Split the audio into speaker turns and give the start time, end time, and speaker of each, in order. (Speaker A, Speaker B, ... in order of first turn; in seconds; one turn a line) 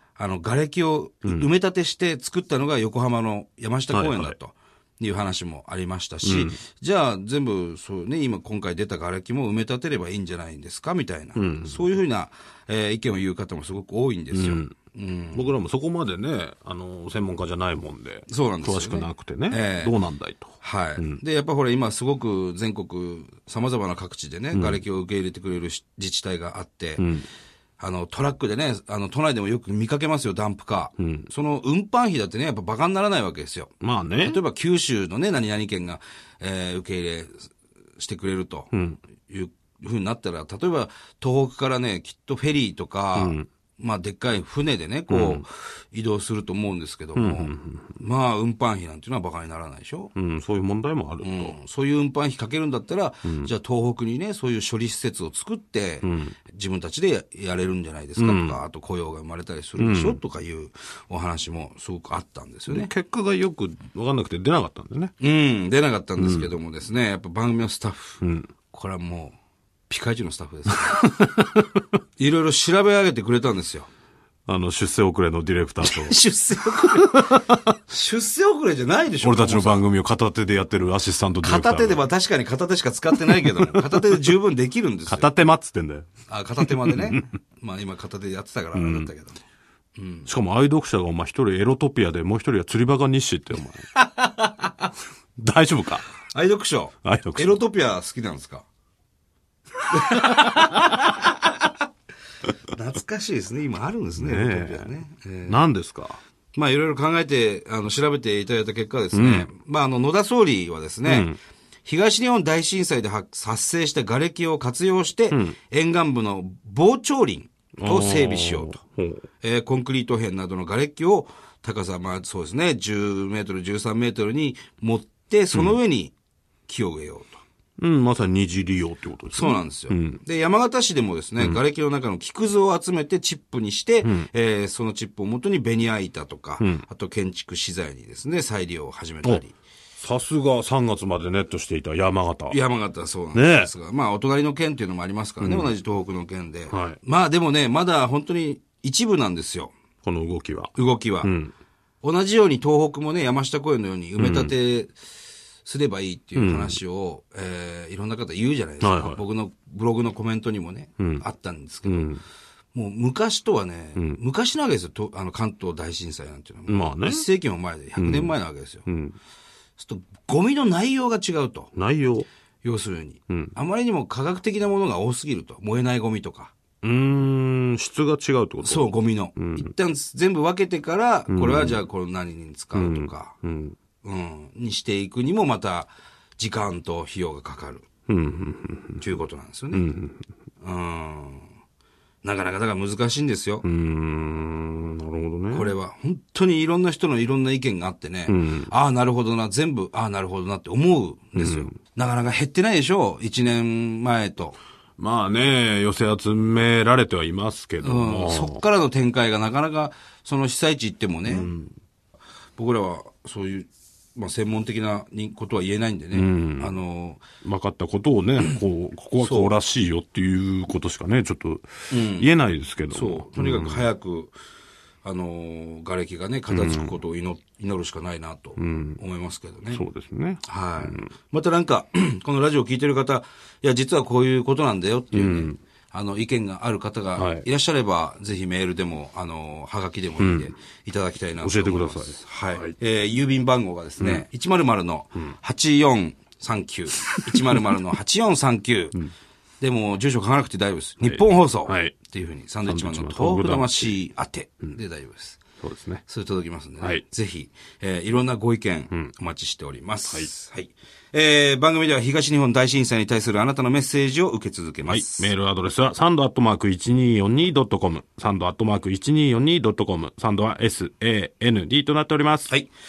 Speaker A: 0.2-15.5
Speaker B: 3.9-4.3
Speaker B: 6.2-6.6
Speaker B: 11.3-11.9
Speaker B: 14.3-14.7
Speaker B: 15.3-21.2
Speaker A: 18.3-19.9
Speaker A: 20.6-27.0
Speaker B: 24.5-24.8
Speaker B: 27.0-27.3
Speaker A: 27.8-38.7
Speaker B: 31.0-31.3
Speaker B: 33.8-34.4
Speaker B: 38.7-39.0
Speaker A: 39.3-50.1
Speaker B: 43.1-43.5
Speaker B: 45.1-45.4
Speaker B: 47.1-48.0
Speaker B: 50.1-51.5
Speaker A: 51.2-62.9
Speaker B: 56.0-56.3
Speaker B: 58.2-58.6
Speaker B: 59.8-60.2
Speaker B: 62.7-65.1
Speaker A: 65.2-68.2
Speaker B: 66.2-66.5
Speaker B: 68.2-68.5
Speaker A: 68.7-69.3
Speaker A: 69.9-71.1
Speaker B: 70.9-71.8
Speaker A: 72.2-73.9
Speaker B: 74.5-76.2
Speaker A: 75.8-79.8
Speaker B: 76.8-77.7
Speaker B: 79.2-82.0
Speaker A: 81.4-85.3
Speaker B: 83.3-84.3
Speaker B: 85.1-86.1
Speaker A: 86.3-89.4
Speaker B: 86.6-87.2
Speaker B: 88.7-89.1
Speaker A: 90.0-90.3
Speaker B: 90.2-93.9
Speaker B: 95.4-96.0
Speaker A: 96.3-98.6
Speaker B: 97.0-97.6
Speaker A: 99.9-101.5
Speaker A: 102.7-105.6
Speaker B: 104.2-104.9
Speaker B: 105.5-106.2
Speaker A: 106.5-111.3
Speaker B: 109.1-109.5
Speaker B: 111.0-111.4
Speaker A: 111.8-118.8
Speaker B: 115.3-115.5
Speaker B: 117.8-119.2
Speaker A: 119.4-126.1
Speaker A: 126.7-127.4
Speaker B: 127.8-130.2
Speaker A: 129.3-139.5
Speaker B: 134.0-134.3
Speaker B: 136.6-136.8
Speaker B: 140.0-142.6
Speaker A: 142.5-149.7
Speaker B: 143.3-143.7
Speaker B: 145.4-145.7
Speaker B: 146.7-147.0
Speaker B: 150.0-151.5
Speaker A: 150.7-151.3
Speaker A: 152.0-154.9
Speaker B: 154.2-154.5
Speaker A: 155.6-162.1
Speaker B: 156.3-156.8
Speaker B: 158.8-159.2
Speaker B: 161.0-161.2
Speaker B: 161.8-162.2
Speaker A: 162.7-168.9
Speaker B: 166.7-167.2
Speaker B: 168.0-168.3
Speaker B: 168.9-169.2
Speaker A: 169.8-171.7
Speaker B: 171.7-172.3
Speaker A: 172.6-176.5
Speaker B: 176.8-179.7
Speaker A: 178.6-183.3
Speaker B: 181.3-181.8
Speaker B: 182.7-183.8
Speaker A: 184.0-187.8
Speaker B: 188.1-189.0
Speaker A: 189.0-189.9
Speaker B: 189.7-190.2
Speaker A: 190.6-191.5
Speaker A: 192.2-193.6
Speaker B: 193.6-195.7
Speaker A: 195.5-204.6
Speaker B: 198.3-198.7
Speaker B: 201.3-201.7
Speaker B: 205.0-208.6
Speaker A: 207.8-211.5
Speaker B: 211.3-211.7
Speaker A: 212.6-217.2
Speaker B: 216.1-216.8
Speaker B: 217.4-223.8
Speaker A: 219.2-219.5
Speaker A: 221.9-222.3
Speaker A: 222.9-224.3
Speaker A: 225.0-229.8
Speaker B: 226.5-227.0
Speaker B: 228.6-229.0
Speaker B: 229.7-231.1
Speaker A: 230.4-249.0
Speaker B: 235.1-235.6
Speaker B: 237.2-237.4
Speaker B: 240.2-240.5
Speaker B: 241.4-242.7
Speaker B: 244.0-244.2
Speaker B: 247.0-247.6
Speaker A: 249.6-255.4
Speaker B: 251.0-251.9
Speaker B: 252.6-254.0
Speaker B: 255.6-256.0
Speaker A: 256.1-265.3
Speaker B: 264.9-272.5